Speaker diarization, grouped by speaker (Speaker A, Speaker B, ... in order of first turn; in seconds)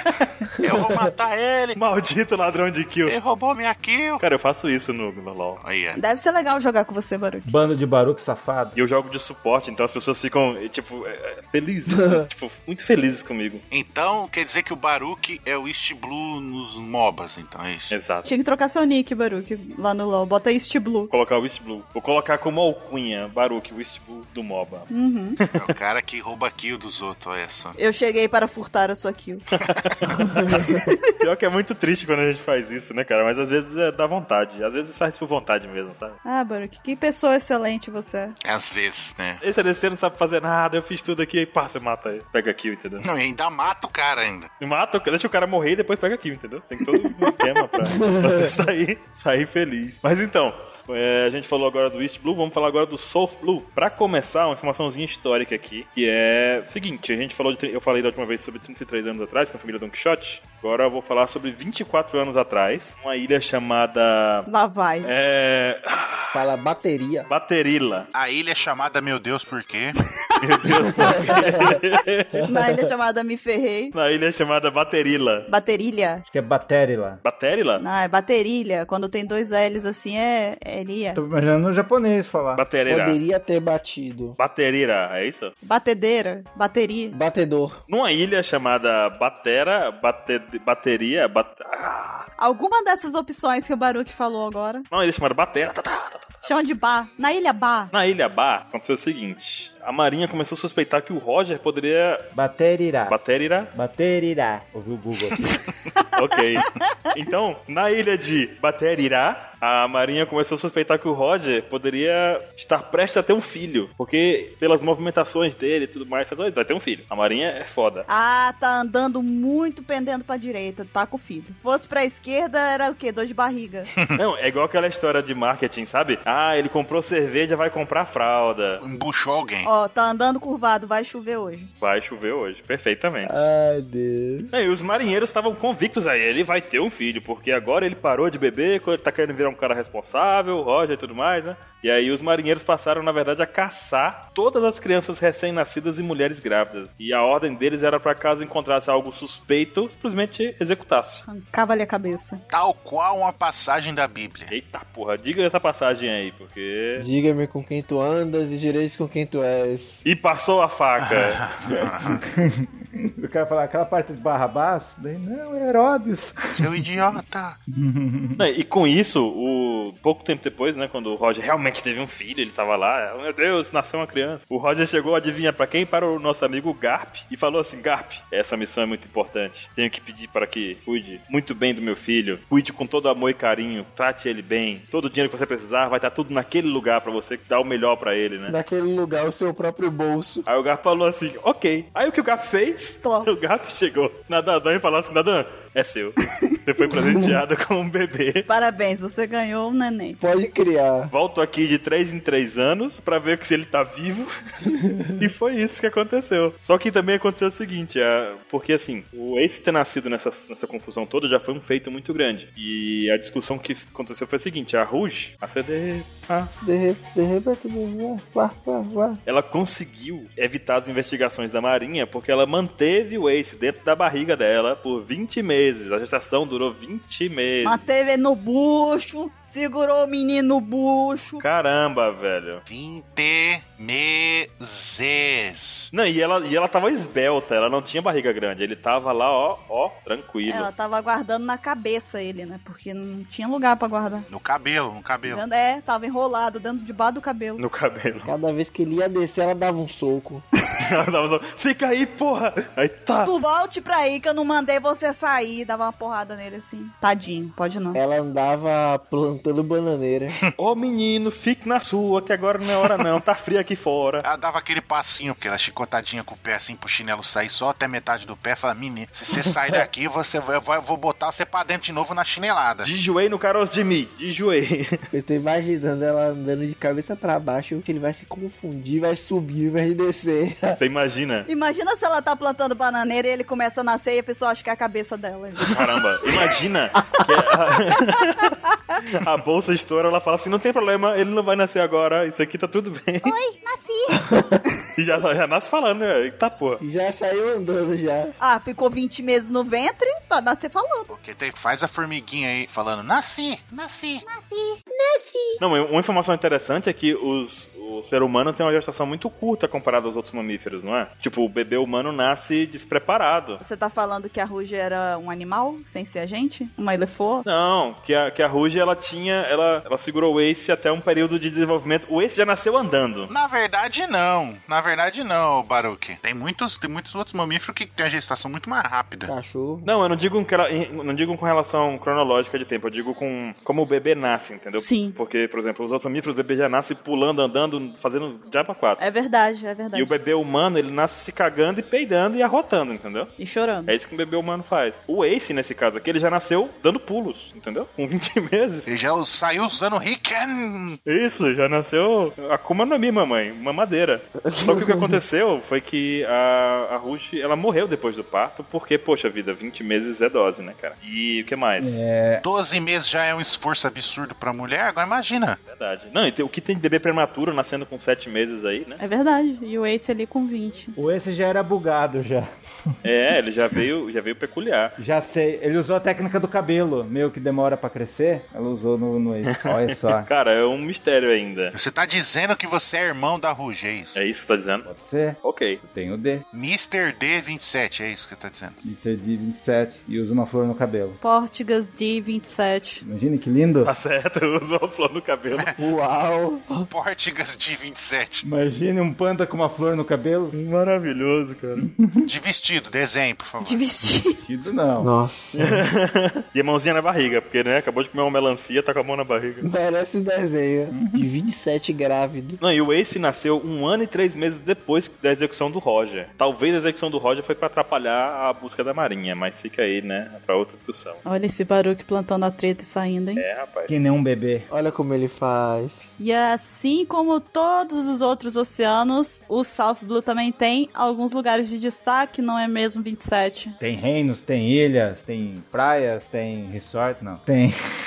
Speaker A: 0.6-1.8, 3.1-4.2, 5.6-6.0, 13.7-17.9, 25.6-27.8, 38.4-39.4, 43.0-44.5, 68.1-70.0, 128.8-129.7, 152.5-154.5, 161.1-162.2, 166.6-167.6, 232.7-235.9, 244.3-245.4, 264.2-272.9, 301.1-304.2, 323.3-329.3, 348.9-351.0, 362.4-365.6, 381.7-384.2, 386.5-388.8, 396.9-398.5, 402.2-403.8
Speaker B: 1.8-3.1, 4.2-5.6, 8.8-13.6, 17.9-18.3, 21.1-24.9, 25.4-25.7, 29.6-30.1, 31.2-36.2, 39.4-43.0, 44.6-64.5, 65.0-66.3, 67.3-68.1, 70.4-72.4, 73.9-75.5, 77.2-77.8, 82.5-83.2, 84.4-85.5, 87.9-92.3, 94.9-96.5, 97.9-102.3, 103.1-103.7, 106.2-118.1, 124.1-128.8, 131.8-133.3, 134.5-151.3, 154.5-157.1, 160.1-161.4, 168.4-188.6, 190.5-198.5, 201.1-204.3, 205.2-216.5, 219.3-227.8, 231.4-232.6, 235.9-240.7, 247.6-248.3, 250.8-253.3, 260.6-264.2, 272.8-275.0, 280.8-281.5, 285.7-293.4, 294.9-296.8, 305.6-313.6, 317.4-323.3, 329.9-339.0, 339.9-343.3, 343.9-348.9, 351.1-362.0, 365.7-369.0, 373.0-375.0, 379.5-381.7, 384.1-384.9, 385.4-385.8, 393.8-395.7, 400.5-401.9, 405.6-409.7, 412.6-421.2, 423.4-423.9
Speaker C: 6.0-7.5, 18.3-21.1, 24.9-25.4, 27.8-29.4, 30.6-31.0, 36.2-38.4, 64.5-65.1, 72.5-73.9, 75.5-76.2, 77.8-81.2, 85.6-87.2, 92.4-94.8, 96.5-97.9, 118.1-123.9, 129.7-131.7, 151.3-152.4, 193.0-193.3, 198.5-200.2, 227.6-231.4, 240.5-244.3, 245.2-247.6, 253.2-258.0, 281.5-285.8, 293.2-294.3, 298.4-301.1, 304.2-305.6, 313.6-317.5, 334.8-335.2, 339.0-340.1, 343.4-343.9, 369.0-370.9, 391.2-393.0, 403.6-404.4, 421.2-423.4, 426.2-433.8
Speaker D: 7.5-8.8, 76.3-77.2, 81.2-82.7, 102.3-103.2, 103.7-105.5, 161.7-166.8, 167.7-168.4, 361.8-362.4, 371.0-372.5, 375.0-380.3, 384.9-386.4, 388.8-391.2, 393.0-393.9, 398.4-400.5, 401.8-402.3, 404.0-405.1, 410.9-411.3, 423.9-424.7, 433.8-437.8
Speaker E: 66.3-67.3, 71.0-71.5, 82.9-84.4, 87.1-87.8, 133.2-134.5, 157.0-160.1, 188.5-190.5, 200.2-201.1, 204.7-205.1, 216.6-219.2, 248.2-250.4, 257.9-260.4, 275.1-280.8, 294.2-294.6, 296.8-298.4, 329.2-329.9, 354.4-355.2, 395.8-396.9, 405.0-405.8, 409.6-412.6, 424.7-426.1